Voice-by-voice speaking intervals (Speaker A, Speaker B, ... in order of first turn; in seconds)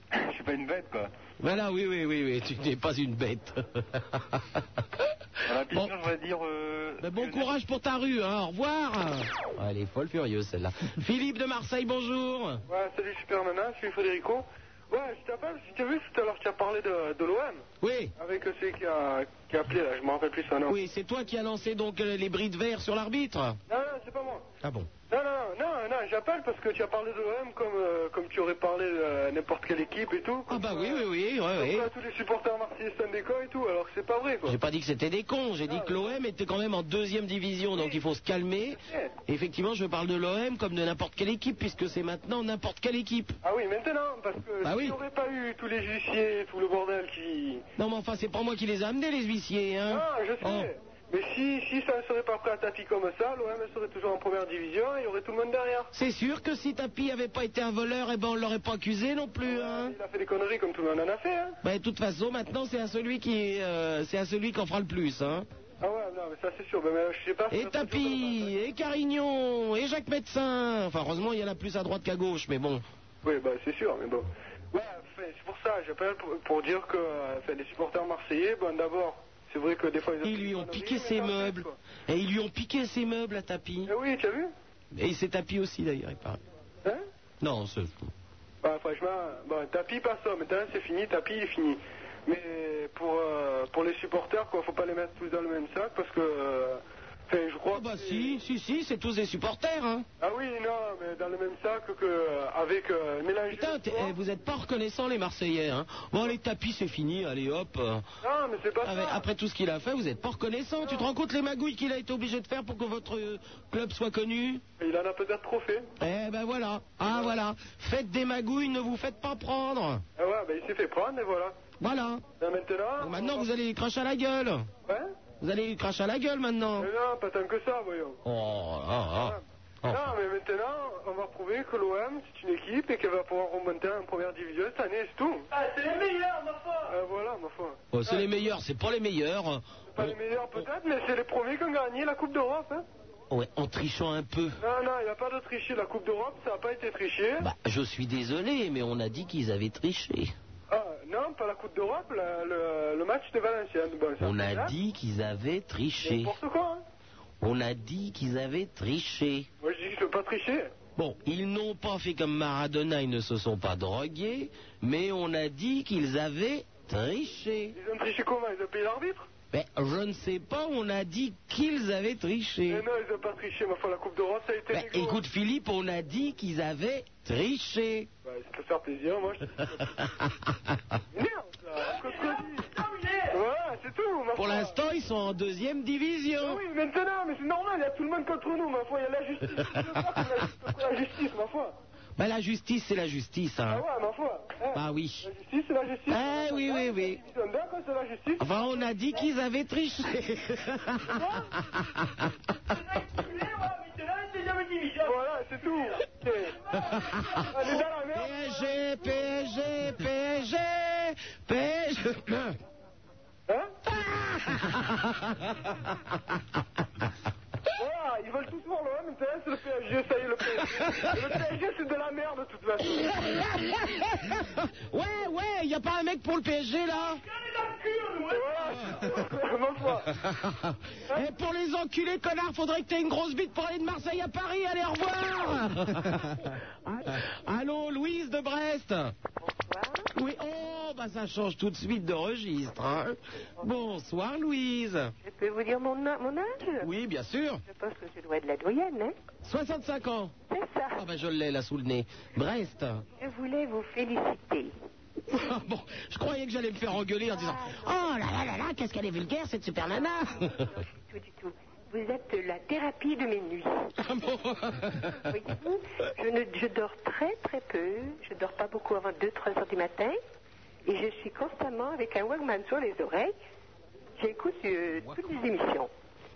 Speaker A: 0.1-1.1, 5.4-7.6
Speaker B: 1.4-4.6, 7.0-12.6, 17.8-18.1, 20.7-23.6, 24.6-24.9, 30.5-31.9, 34.5-43.4, 44.6-45.0, 47.8-50.7, 55.9-59.9, 61.6-65.5, 67.5-72.8, 80.2-83.9, 84.9-86.4, 87.4-88.1, 97.7-100.1, 103.5-108.0, 108.8-114.6, 116.0-120.0, 121.8-122.2, 123.0-124.7, 125.4-126.9, 128.2-130.1, 137.9-140.1, 143.3-144.6, 147.4-150.3, 154.2-156.3, 157.4-159.5, 160.9-167.7, 169.5-172.8, 174.7-178.1, 184.4-186.6, 192.2-193.8, 194.7-195.3, 196.1-197.2, 198.4-202.2, 206.7-212.6, 213.9-215.3, 223.3-227.2, 230.1-239.1, 240.1-245.1, 246.8-247.6, 249.4-250.3, 250.9-253.0, 255.3-260.7, 264.0-265.3
Speaker C: 12.7-17.6, 18.2-20.8, 23.7-24.4, 25.1-34.6, 35.7-36.1, 38.8-39.1, 43.4-47.6, 49.9-55.9, 59.4-61.6, 65.8-68.6, 73.2-81.7, 83.9-84.5, 88.6-98.4, 100.2-104.1, 108.2-109.3, 110.8-111.1, 114.8-115.9, 117.1-117.3, 120.2-121.6, 122.4-123.5, 124.9-125.1, 126.8-128.2, 129.1-135.6, 136.8-138.4, 139.9-142.8, 144.6-147.5, 150.7-154.7, 156.0-156.8, 159.6-160.7, 167.7-169.3, 172.7-175.2, 178.2-180.0, 181.1-182.8, 183.3-184.8, 186.4-191.8, 193.7-199.1, 201.1-201.5, 205.0-206.6, 207.4-208.9, 217.8-223.4, 228.1-230.1
Speaker D: 239.4-240.1, 245.2-246.9, 247.7-249.2, 250.5-251.0, 253.2-254.7, 257.3-258.1, 259.9-263.9, 265.2-270.2, 270.9-273.4, 274.2-275.9